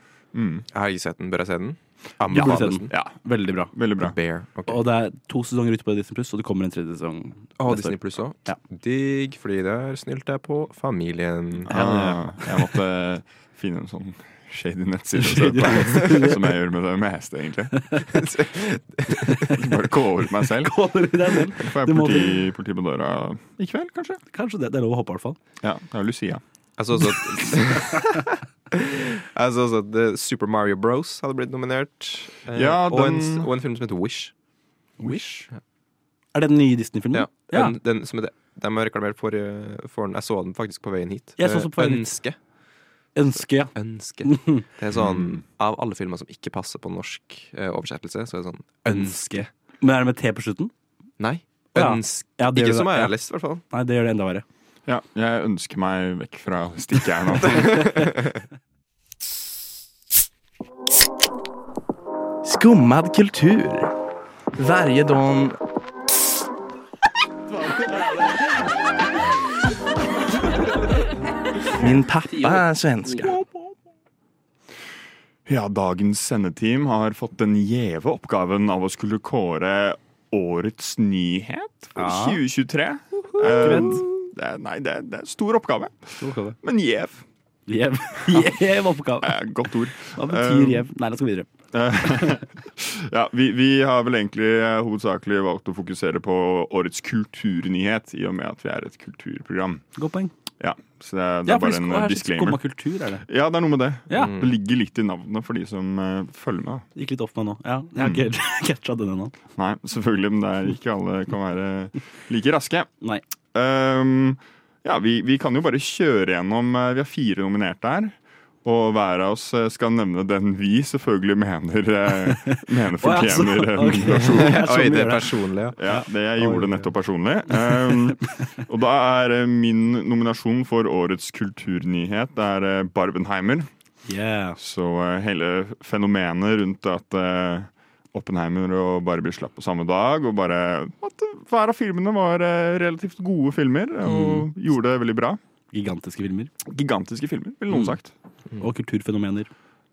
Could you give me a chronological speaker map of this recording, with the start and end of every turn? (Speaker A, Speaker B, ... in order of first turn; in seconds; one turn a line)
Speaker A: 0.3-0.7
Speaker B: 0.7-2.9
Speaker A: 2.3-3.1
Speaker C: 2.3-3.7
Speaker A: 3.7-4.1
Speaker B: 4.0-4.8
Speaker C: 4.7-8.6
Speaker B: 7.6-12.2
Speaker A: 11.6-17.9
Speaker C: 15.2-16.4
Speaker B: 18.1-19.5
Speaker C: 19.3-19.6
Speaker A: 19.4-20.8
Speaker C: 20.6-22.4
Speaker A: 21.5-24.2
Speaker C: 24.3-25.4
Speaker A: 25.6-26.4
Speaker B: 26.8-34.3
Speaker A: 32.5-33.5
Speaker C: 35.0-35.5
Speaker C: 36.3-37.7
Speaker B: 37.1-42.4
Speaker C: 41.4-42.1
Speaker C: 43.1-43.7
Speaker B: 43.7-49.4
Speaker C: 44.2-44.6
Speaker A: 44.9-45.3
Speaker C: 48.9-50.7
Speaker B: 51.2-53.6
Speaker C: 51.8-53.1
Speaker C: 53.7-54.4
Speaker A: 54.9-58.0
Speaker D: 62.4-63.9
Speaker D: 64.5-65.6
Speaker D: 71.8-73.3
Speaker A: 75.5-87.2
Speaker C: 82.0-82.4
Speaker C: 83.4-84.0
Speaker C: 86.2-86.6
Speaker C: 87.7-89.4
Speaker A: 89.2-90.8
Speaker C: 90.1-91.5
Speaker A: 91.7-99.8
Speaker C: 92.0-92.4
Speaker C: 100.0-100.3
Speaker A: 100.6-102.6
Speaker C: 101.5-103.2
Speaker A: 103.2-106.8
Speaker B: 104.2-104.5
Speaker C: 107.0-109.3
Speaker A: 109.6-112.9
Speaker A: 113.5-124.6
Speaker C: 122.3-126.9
Speaker B: 124.3-125.8
Speaker A: 125.8-133.7
Speaker C: 127.5-128.1
Speaker C: 134.1-134.6
Speaker A: 134.6-145.4
Speaker C: 144.1-144.4
Speaker C: 145.7-146.5
Speaker A: 146.6-148.1
Speaker C: 147.7-148.0
Speaker C: 148.6-149.5